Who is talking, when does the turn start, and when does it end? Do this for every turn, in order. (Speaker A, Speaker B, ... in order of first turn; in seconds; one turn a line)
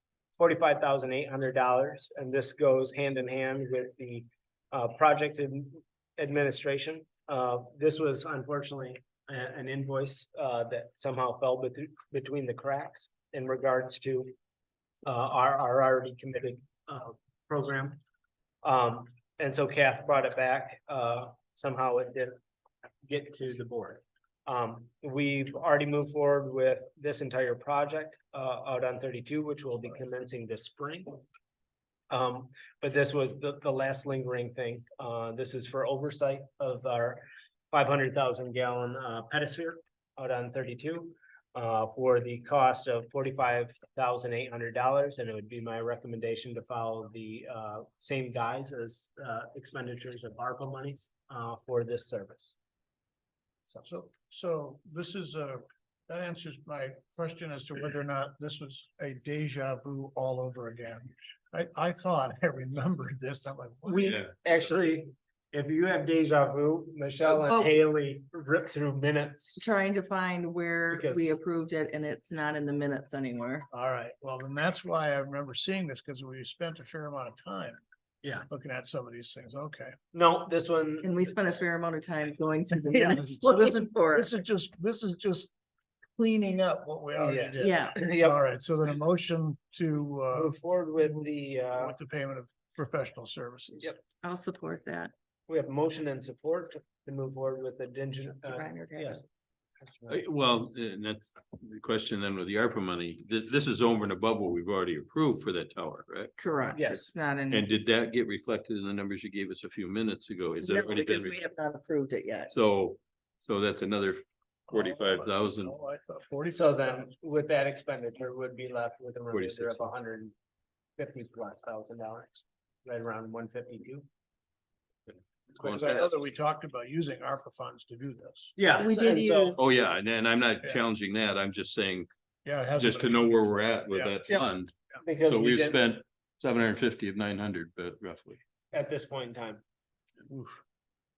Speaker A: 0.3-14.3
Speaker A: 15.0-18.0
Speaker A: 18.6-22.3
Speaker A: 23.0-31.2
Speaker A: 32.1-52.5
Speaker B: 53.9-64.1
Speaker A: 63.8-69.6
Speaker C: 64.0-64.3
Speaker D: 67.3-67.7
Speaker D: 69.6-73.7
Speaker A: 70.9-71.3
Speaker B: 73.7-77.8
Speaker B: 78.5-79.9
Speaker A: 80.1-81.2
Speaker D: 81.0-84.3
Speaker B: 82.9-85.5
Speaker B: 86.1-93.9
Speaker A: 87.2-88.4
Speaker D: 87.6-87.9
Speaker A: 90.3-92.0
Speaker D: 94.2-95.1
Speaker A: 95.5-99.2
Speaker D: 98.4-99.2
Speaker A: 99.8-100.2
Speaker C: 100.1-106.3
Speaker D: 106.4-107.7
Speaker A: 106.7-107.1
Speaker C: 107.5-111.4
Speaker D: 110.6-112.5
Speaker C: 112.5-115.7
Speaker B: 114.7-117.1
Speaker A: 116.5-120.3
Speaker C: 119.3-119.9
Speaker A: 121.0-124.0
Speaker A: 125.6-126.0
Speaker B: 125.6-128.5
Speaker C: 125.6-126.0
Speaker A: 128.6-129.5
Speaker D: 128.8-129.6
Speaker C: 129.6-132.1
Speaker B: 132.4-134.2
Speaker C: 132.7-138.4
Speaker A: 135.0-135.8
Speaker A: 138.7-139.6
Speaker B: 140.3-140.6